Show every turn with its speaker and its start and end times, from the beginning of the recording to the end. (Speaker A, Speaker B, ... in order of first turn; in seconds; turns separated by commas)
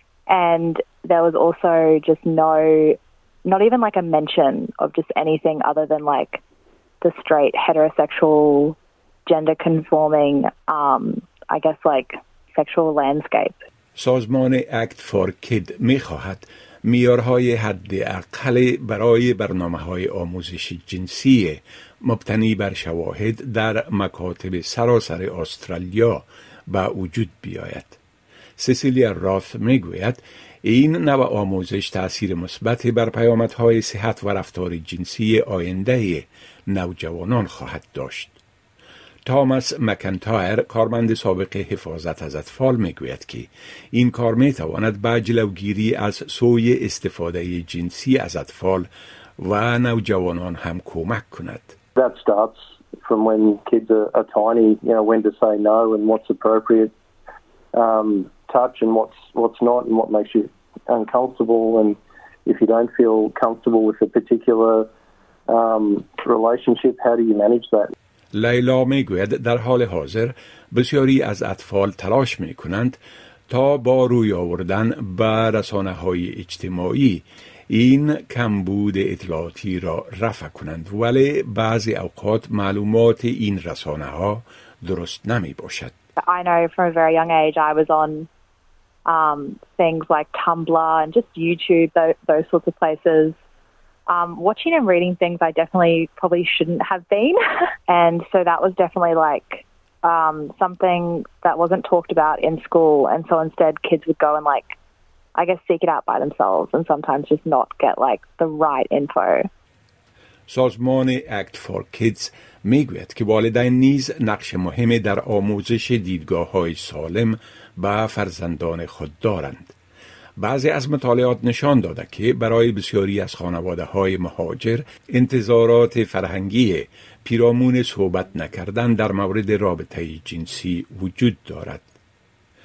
Speaker A: 0.3-6.4, Speaker A: 7.0-8.8, Speaker A: 9.3-13.6, Speaker B: 13.9-28.0, Speaker B: 28.6-38.4, Speaker B: 39.2-48.9, Speaker B: 49.4-51.7, Speaker C: 52.0-56.9, Speaker C: 57.7-64.9, Speaker C: 65.5-67.9, Speaker B: 68.3-73.0, Speaker B: 73.5-85.9, Speaker A: 86.2-88.3, Speaker A: 89.0-93.3, Speaker A: 94.1-104.7, Speaker A: 105.3-109.5, Speaker B: 110.5-119.7, Speaker B: 120.4-131.9